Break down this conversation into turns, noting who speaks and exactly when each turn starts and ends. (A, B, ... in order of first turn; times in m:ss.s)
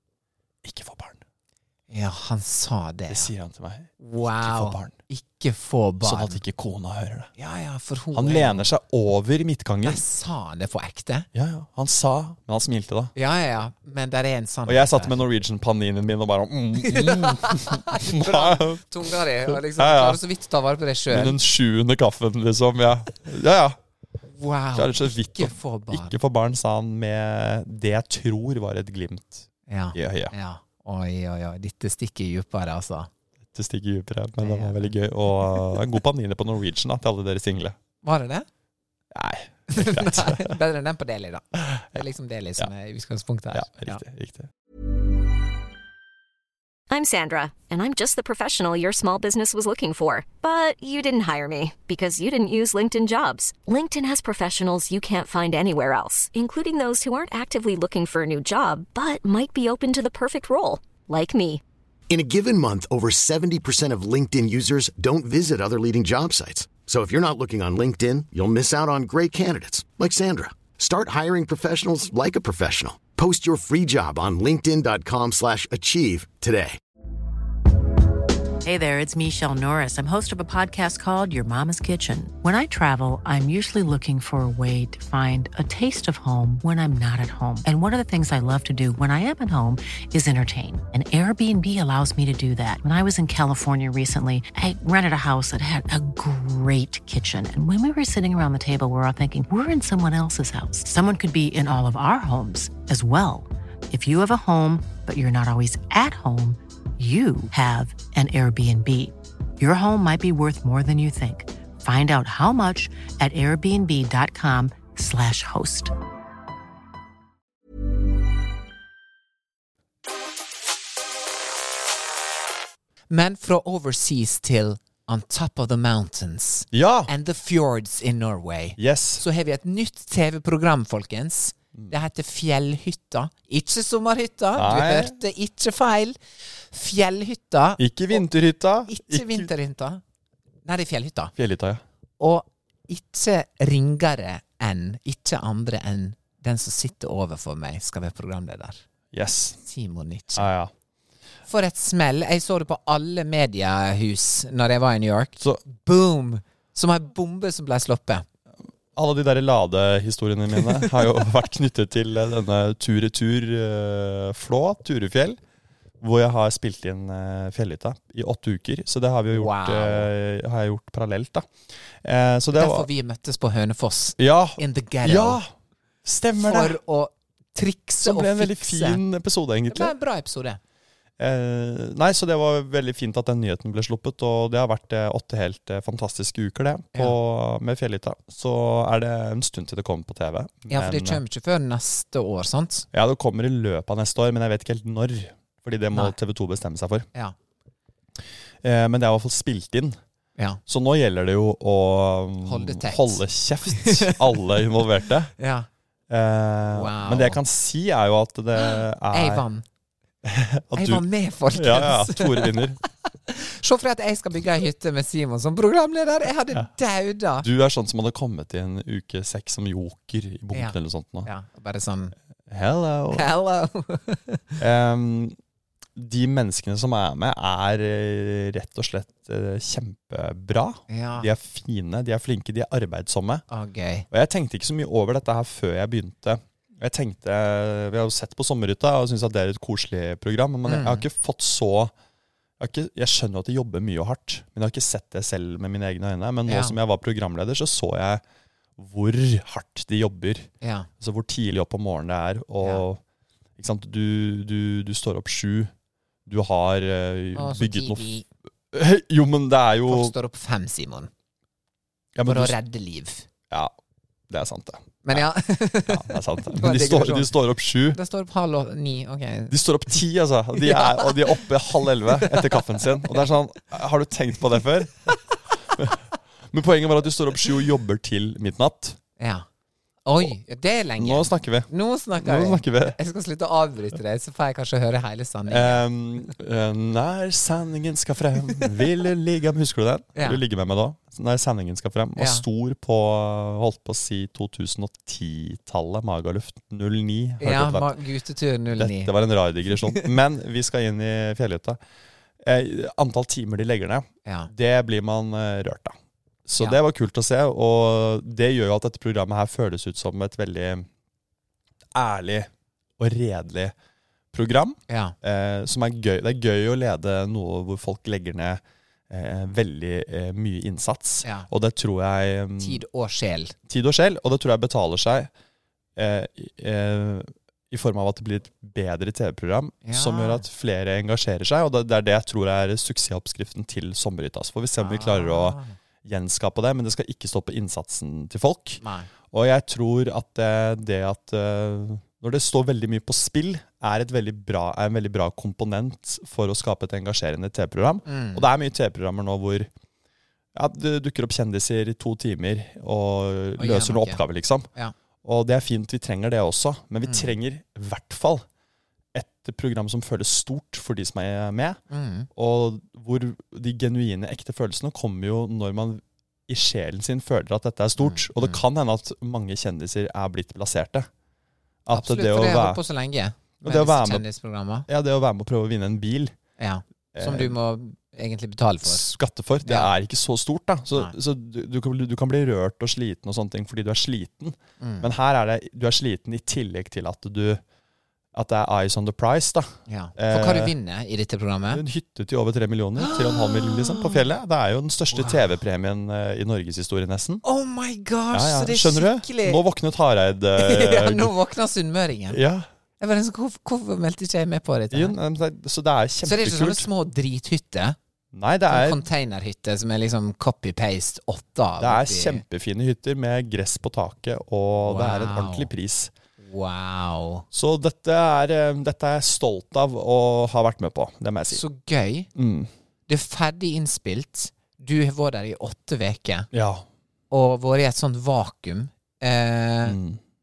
0:00.6-0:01.2 A
0:01.9-0:03.3 B
0:03.1-0:05.0 A
0:04.0-0:06.4 B
0:06.0-0:07.3 A
0:07.4-0:08.7 B
0:08.1-0:10.0 A
0:09.8-0:11.3 B
0:11.3-0:13.1 A
0:13.2-0:15.2 B
0:14.7-0:20.2 A
0:16.8-0:21.4 B
0:21.1-0:23.8 A
0:24.3-0:26.2 B
0:24.7-0:30.3 A
0:29.7-0:33.1 B
0:33.5-0:37.8 A
0:34.4-0:34.9 B
0:38.0-0:38.5 B
0:39.1-0:40.6 A
0:39.7-0:44.0 B
0:41.7-0:42.0 A
0:43.5-0:44.5 A
0:46.9-1:01.6 C
1:02.1-1:16.8 D
1:18.6-1:55.9 E
2:03.1-2:16.2 B
2:06.7-2:07.1 A
2:08.8-2:09.2 A
2:14.6-2:15.2 A
2:16.7-2:18.2 B
2:17.8-2:19.5 A
2:18.9-2:20.0 B
2:20.6-2:21.3 B
2:21.4-2:21.8 A
2:22.2-2:28.8 B
2:29.1-2:29.6 A
2:29.7-2:30.5 B
2:30.4-2:30.7 A
2:31.5-2:38.2 B
2:39.0-2:45.4 A
2:46.0-2:52.9 A
2:49.3-2:50.1 B
2:52.5-2:55.4 B
2:54.2-2:55.5 A
2:56.0-2:56.8 A
2:56.4-2:59.0 B
2:58.0-2:59.9 A
2:59.7-3:00.6 B
3:01.2-3:11.2 A
3:10.7-3:12.9 B
3:12.9-3:17.1 A
3:18.6-3:20.0 A
3:20.7-3:25.3 A
3:22.4-3:24.7 B
3:25.4-3:25.7 B
3:26.1-3:29.4 A
3:26.7-3:27.4 B
3:28.6-3:29.6 B
3:30.2-3:32.8 A
3:30.8-3:37.5 B
3:37.4-3:41.3 A
3:40.5-3:42.2 B
3:42.5-3:43.3 A
3:43.1-3:44.6 B
3:44.6-3:45.4 A
3:46.0-3:53.4 A
3:50.9-3:51.3 B
3:53.5-3:54.1 B
3:54.1-4:01.9 A
4:00.7-4:01.1 B
4:02.6-4:08.2 A
4:06.5-4:06.8 B
4:08.8-4:10.5 A
4:10.6-4:10.9 B
4:11.0-4:13.0 A
4:13.6-4:15.7 A
4:16.3-4:18.0 A
4:17.4-4:18.3 B
4:18.7-4:20.1 A
4:19.9-4:21.1 B
4:22.2-4:22.6 A
4:22.3-4:23.3 B
4:24.3-4:25.3 A
4:25.0-4:27.3 B
4:25.9-4:28.0 A
4:27.9-4:29.6 B
4:29.5-4:35.2 A
4:30.6-4:33.2 B
4:35.7-4:39.0 A
4:39.2-4:39.5 B
4:40.1-4:45.8 B
4:41.0-4:43.0 A
4:45.5-4:58.0 A
4:50.2-4:50.4 B
4:52.2-4:52.4 B
4:57.4-4:59.1 B
4:58.8-5:01.8 A
4:59.7-5:00.1 B
5:02.4-5:10.9 A
5:04.2-5:04.5 B
5:11.9-5:13.7 A
5:14.3-5:22.8 A
5:14.9-5:15.2 B
5:22.6-5:23.6 B
5:23.7-5:25.3 A
5:26.0-5:49.7 A
5:29.9-5:30.4 B
5:34.8-5:35.8 B
5:38.8-5:39.1 B
5:48.1-5:48.5 B
5:50.6-5:54.7 A
5:53.6-5:54.2 B
5:55.2-5:58.5 A
5:57.1-5:57.3 B
5:59.1-6:01.8 A
6:01.9-6:02.3 B
6:02.4-6:11.1 A
6:08.0-6:08.6 B
6:11.9-6:12.8 A
6:11.9-6:14.9 B
6:13.6-6:14.2 A
6:14.9-6:16.4 A
6:16.6-6:19.1 B
6:17.2-6:17.6 A
6:18.8-6:27.6 A
6:19.6-6:19.9 B
6:24.8-6:25.1 B
6:28.3-6:30.7 A
6:29.9-6:31.8 B
6:31.7-6:37.4 A
6:33.0-6:34.2 B
6:35.1-6:35.5 B
6:37.4-6:39.6 B
6:38.3-6:41.3 A
6:40.6-6:42.4 B
6:42.3-6:42.7 A
6:43.0-6:45.2 B
6:44.9-6:46.9 A
6:46.2-6:48.0 B
6:48.3-6:49.0 A
6:48.7-6:52.4 B
6:51.8-6:56.1 A
6:54.8-6:55.7 B
6:56.4-6:57.4 B
6:57.5-7:01.6 A
7:01.5-7:02.3 B
7:02.4-7:02.7 A
7:03.1-7:06.5 B
7:06.5-7:06.9 A
7:07.3-7:10.0 B
7:09.8-7:10.2 A